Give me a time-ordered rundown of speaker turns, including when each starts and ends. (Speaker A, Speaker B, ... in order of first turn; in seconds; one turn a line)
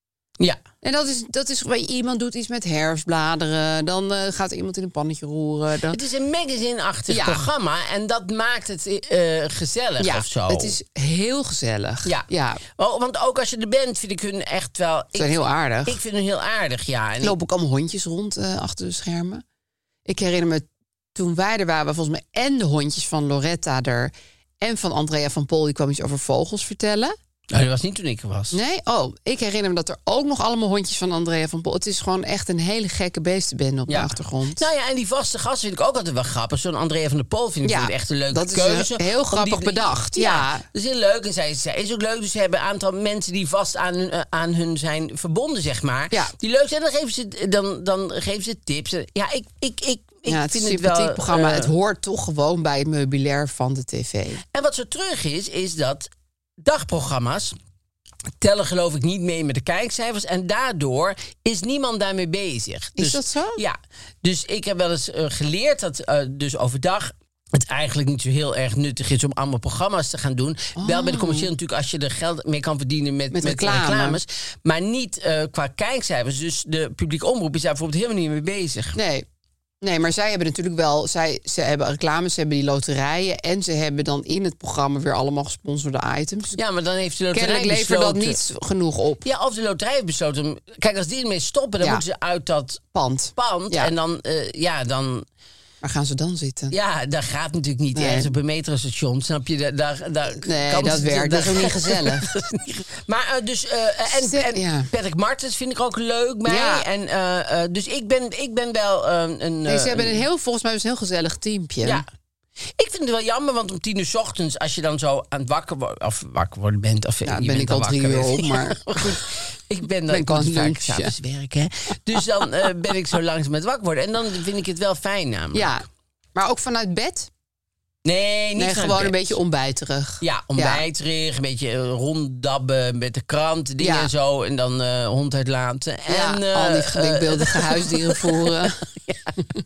Speaker A: 0.8-6.0
Speaker B: 5.9-10.7
Speaker A: 7.1-7.5
Speaker A: 10.0-12.6
Speaker B: 12.0-17.3
Speaker A: 15.1-16.0
Speaker A: 17.2-19.4
Speaker A: 20.1-27.1
Speaker B: 27.5-28.6
Speaker A: 28.5-34.6
Speaker B: 33.9-51.7
Speaker A: 37.6-40.6
Speaker A: 50.3-54.4
Speaker B: 54.5-56.1
Speaker B: 56.6-57.5
Speaker B: 58.4-79.0
Speaker A: 63.0-63.6
Speaker A: 70.8-71.5
Speaker A: 73.3-74.2
Speaker A: 78.9-79.2
Speaker A: 79.8-86.6
Speaker B: 86.5-88.4
Speaker A: 87.3-89.2
Speaker B: 89.2-92.8
Speaker A: 92.9-93.9
Speaker B: 93.4-95.2
Speaker A: 95.8-96.7
Speaker B: 96.7-110.2
Speaker A: 97.9-98.3
Speaker A: 100.3-102.3
Speaker A: 104.1-104.9
Speaker A: 106.5-106.8
Speaker A: 109.7-112.0
Speaker B: 112.8-125.8
Speaker A: 117.2-119.2
Speaker A: 120.1-121.1
Speaker A: 125.5-127.3
Speaker B: 128.0-129.3
Speaker A: 128.6-130.8
Speaker B: 130.2-139.4
Speaker A: 133.8-134.1
Speaker A: 136.1-138.8